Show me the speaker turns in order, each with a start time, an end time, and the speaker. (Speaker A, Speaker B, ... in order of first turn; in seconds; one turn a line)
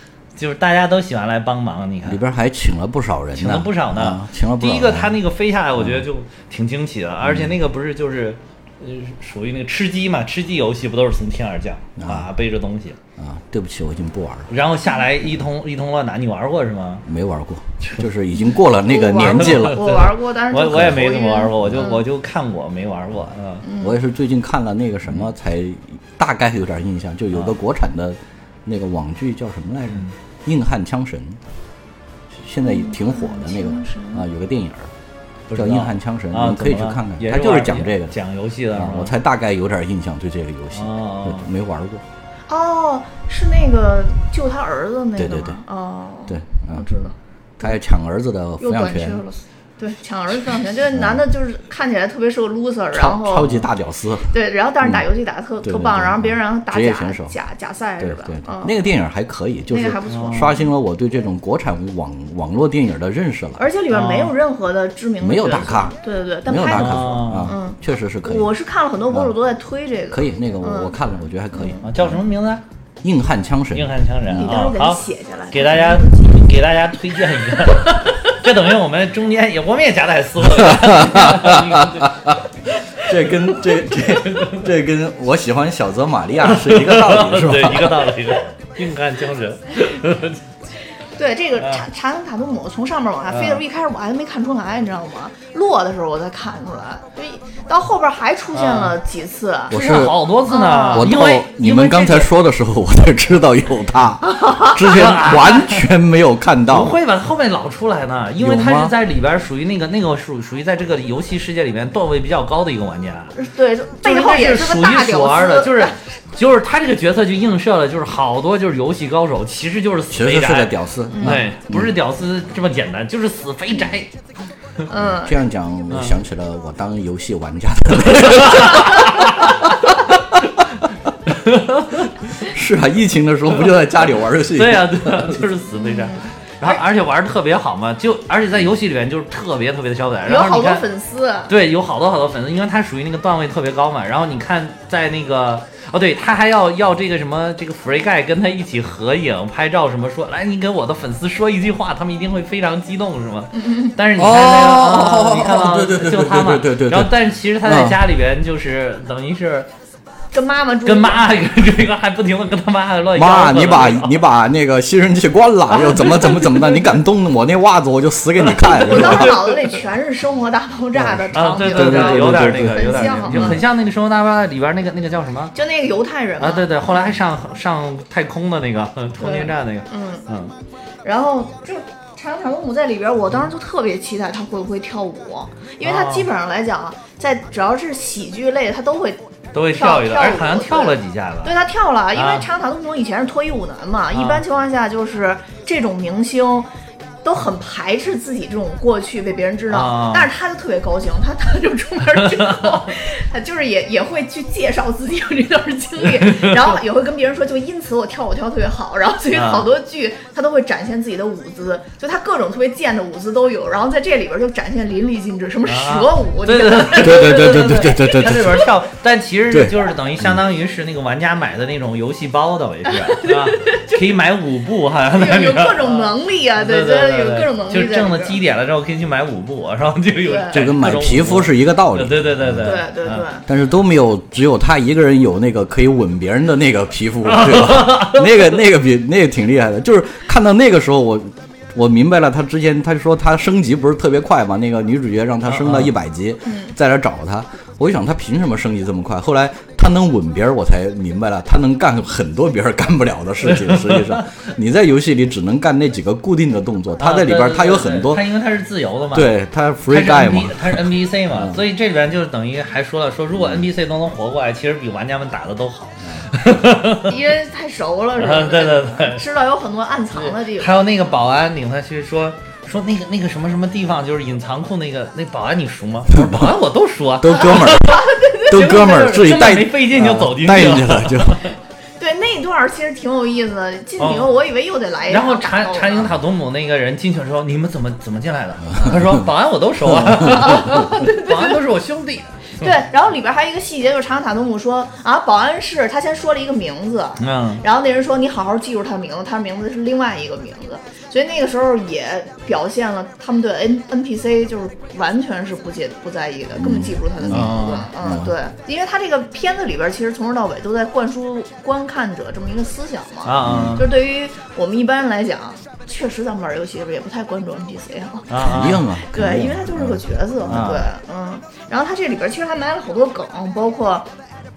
Speaker A: 0.4-2.2
Speaker B: 2.0-5.2
Speaker A: 3.4-13.0
Speaker B: 5.8-6.1
Speaker B: 7.2-7.6
Speaker B: 12.0-12.3
Speaker B: 13.2-14.5
Speaker A: 14.5-17.1
Speaker B: 17.1-19.9
Speaker C: 18.4-22.1
Speaker A: 19.3-23.6
Speaker B: 20.7-21.0
Speaker C: 23.6-24.0
Speaker B: 23.8-31.4
Speaker A: 29.9-30.1
Speaker B: 32.3-34.9
Speaker C: 32.6-34.2
Speaker A: 35.5-39.1
Speaker B: 35.5-38.1
Speaker B: 38.7-42.0
Speaker A: 40.7-41.5
Speaker C: 42.5-47.8
Speaker B: 45.2-45.6
Speaker B: 46.3-46.9
Speaker B: 47.6-49.2
Speaker C: 48.6-53.6
Speaker B: 50.9-51.2
Speaker B: 52.9-55.0
Speaker C: 54.3-58.8
Speaker B: 55.6-57.4
Speaker B: 58.0-63.6
Speaker C: 59.7-60.7
Speaker A: 60.1-60.5
Speaker C: 63.6-71.0
Speaker A: 63.9-64.3
Speaker B: 65.2-68.5
Speaker A: 66.6-67.5
Speaker B: 70.1-72.2
Speaker C: 71.5-71.9
Speaker A: 71.8-72.6
Speaker B: 73.0-73.9
Speaker A: 73.7-83.1
Speaker C: 74.3-76.4
Speaker B: 80.5-82.4
Speaker B: 83.0-88.1
Speaker A: 84.0-84.7
Speaker A: 86.4-90.4
Speaker C: 91.2-99.9
Speaker A: 91.6-91.8
Speaker A: 93.3-93.6
Speaker A: 98.5-99.0
Speaker B: 99.7-100.3
Speaker A: 99.7-102.3
Speaker C: 100.5-101.2
Speaker B: 100.9-107.0
Speaker C: 104.2-104.8
Speaker A: 104.8-105.9
Speaker A: 106.7-113.4
Speaker B: 108.4-108.9
Speaker C: 113.3-116.0
Speaker A: 114.0-124.1
Speaker B: 120.1-122.0
Speaker C: 121.1-121.4
Speaker C: 124.9-125.4
Speaker B: 125.0-129.4
Speaker A: 125.9-126.2
Speaker A: 128.1-129.5
Speaker A: 131.3-132.1
Speaker B: 132.4-135.4
Speaker A: 134.6-140.8
Speaker C: 135.7-136.8
Speaker C: 140.2-141.5
Speaker A: 141.5-159.7
Speaker C: 153.6-153.9
Speaker B: 154.2-158.0
Speaker C: 160.3-161.3
Speaker A: 160.9-164.2
Speaker B: 163.2-169.4
Speaker C: 165.7-166.9
Speaker A: 168.6-169.6
Speaker C: 168.7-173.6
Speaker B: 171.0-173.6
Speaker A: 171.3-175.5
Speaker C: 175.6-177.1
Speaker A: 176.4-180.5
Speaker C: 179.2-180.3
Speaker C: 181.0-189.2
Speaker A: 185.8-186.3
Speaker A: 189.5-191.5
Speaker C: 189.7-196.7
Speaker A: 192.2-192.5
Speaker A: 194.1-194.4
Speaker C: 197.2-218.0
Speaker A: 199.7-200.3
Speaker A: 202.2-202.9
Speaker A: 206.1-206.8
Speaker A: 209.3-209.7
Speaker A: 215.7-233.2
Speaker B: 217.0-218.6
Speaker B: 219.5-220.4
Speaker C: 223.0-224.1
Speaker C: 225.1-228.4
Speaker C: 230.2-230.6
Speaker B: 230.5-232.8
Speaker C: 232.6-233.4
Speaker B: 233.5-258.2
Speaker A: 237.2-238.6
Speaker A: 245.5-245.9
Speaker C: 246.4-246.7
Speaker A: 253.4-254.2
Speaker A: 257.0-259.3
Speaker B: 259.1-261.6
Speaker A: 259.9-267.1
Speaker B: 263.4-263.6
Speaker C: 267.1-270.8
Speaker A: 268.2-269.2
Speaker A: 270.1-281.5
Speaker B: 276.1-276.6
Speaker B: 277.2-281.4
Speaker C: 277.9-278.5
Speaker C: 282.0-286.1
Speaker A: 284.0-284.3
Speaker A: 285.1-292.7
Speaker B: 288.7-289.2
Speaker B: 289.9-290.5
Speaker C: 290.3-291.6
Speaker C: 292.6-324.1
Speaker A: 297.2-297.6
Speaker B: 306.6-308.3
Speaker A: 307.3-307.9
Speaker A: 313.2-313.9
Speaker B: 313.4-313.8
Speaker A: 318.3-318.8
Speaker B: 318.4-320.7
Speaker A: 320.5-320.9